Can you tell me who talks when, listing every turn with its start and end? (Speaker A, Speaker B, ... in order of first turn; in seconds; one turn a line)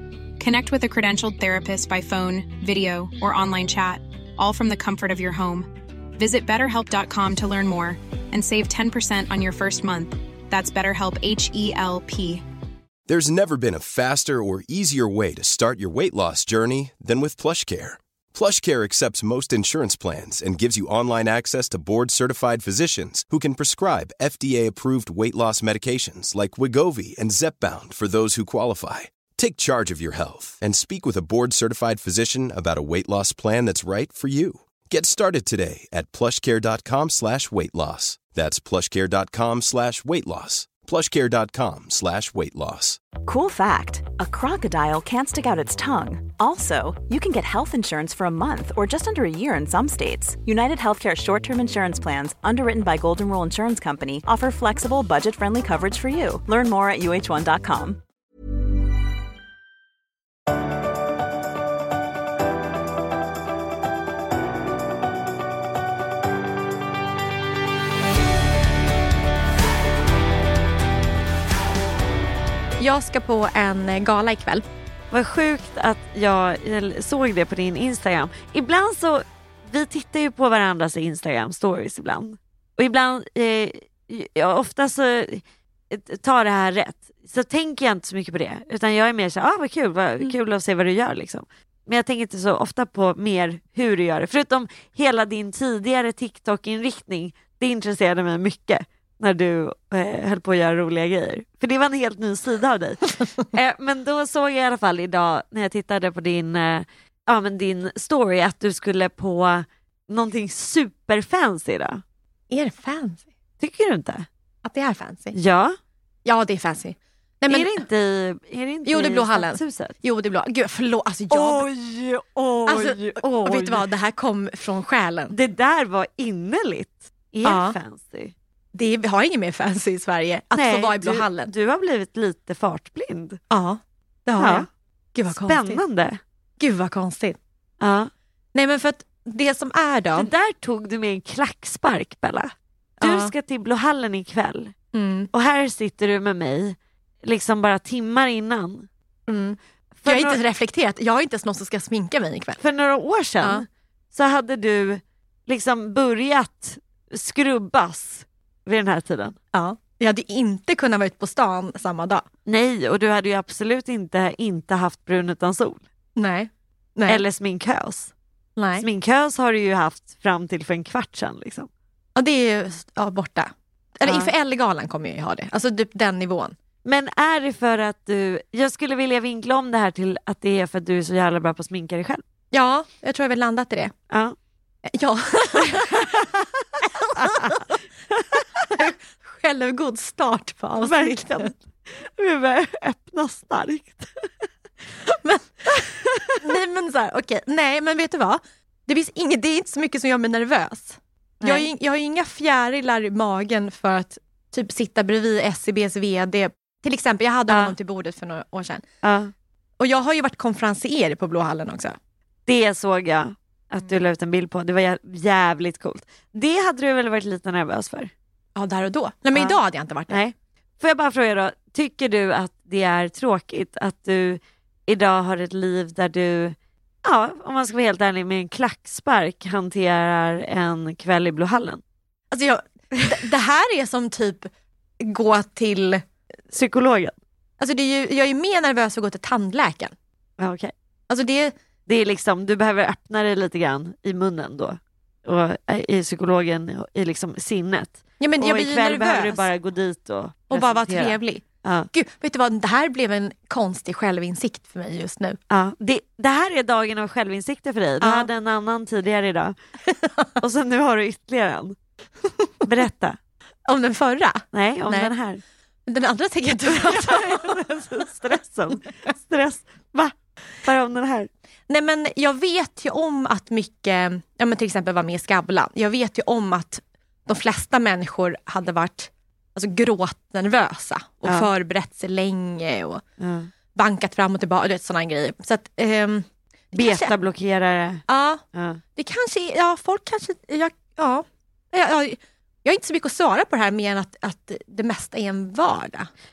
Speaker A: 0.4-12.4
Speaker B: 13.1-43.0
Speaker C: 43.2-58.0
Speaker D: 72.8-74.6
Speaker E: 75.1-112.0
Speaker D: 112.5-113.2
Speaker E: 113.6-114.3
Speaker D: 114.6-115.4
Speaker E: 115.3-115.8
Speaker D: 116.2-117.9
Speaker E: 117.5-120.0
Speaker D: 118.8-121.7
Speaker E: 121.3-123.9
Speaker D: 122.7-125.3
Speaker E: 125.3-128.3
Speaker D: 127.4-127.8
Speaker D: 128.8-131.5
Speaker E: 130.6-133.4
Speaker D: 133.5-135.8
Speaker E: 134.4-134.7
Speaker E: 135.3-136.2
Speaker D: 136.6-137.4
Speaker E: 137.8-138.1
Speaker D: 138.5-140.3
Speaker E: 140.2-144.7
Speaker D: 143.0-143.3
Speaker D: 144.9-145.3
Speaker E: 145.3-148.9
Speaker D: 149.3-152.6
Speaker E: 150.0-150.4
Speaker E: 152.6-159.4
Speaker D: 159.5-162.2
Speaker E: 162.5-165.8
Speaker D: 166.2-167.2
Speaker E: 167.1-168.1
Speaker D: 168.6-168.9
Speaker E: 168.8-171.7
Speaker D: 172.2-176.6
Speaker E: 174.1-174.3
Speaker E: 176.8-182.2
Speaker D: 182.5-183.9
Speaker E: 184.1-184.4
Speaker D: 184.9-187.8
Speaker E: 185.7-186.2
Speaker E: 187.2-188.4
Speaker D: 188.7-191.5
Speaker E: 190.8-194.3
Speaker D: 195.1-195.8
Speaker E: 195.8-196.3
Speaker D: 196.4-208.8
Speaker E: 201.4-201.7
Speaker E: 207.5-207.8
Speaker E: 209.0-209.3
Speaker D: 209.8-211.9
Speaker E: 212.5-218.1
Speaker D: 218.6-220.2
Speaker E: 220.1-231.8
Speaker D: 232.3-236.0
Speaker E: 236.5-237.2
Speaker D: 237.6-239.9
Speaker E: 240.4-240.7
Speaker D: 241.1-241.5
Speaker E: 241.9-251.9
Speaker D: 248.2-249.4
Speaker D: 250.5-255.4
Speaker E: 255.5-259.6
Speaker D: 258.0-258.3
Speaker D: 259.9-260.3
Speaker E: 260.4-261.8
Speaker E: 262.6-263.2
Speaker D: 263.7-265.1
Speaker E: 264.5-265.4
Speaker D: 265.9-268.1
Speaker E: 266.7-271.3
Speaker D: 271.7-283.0
Speaker E: 281.2-281.5
Speaker E: 283.2-283.5
Speaker D: 283.8-287.1
Speaker E: 286.7-288.0
Speaker D: 288.1-288.4
Speaker E: 288.5-288.8
Speaker D: 289.0-296.1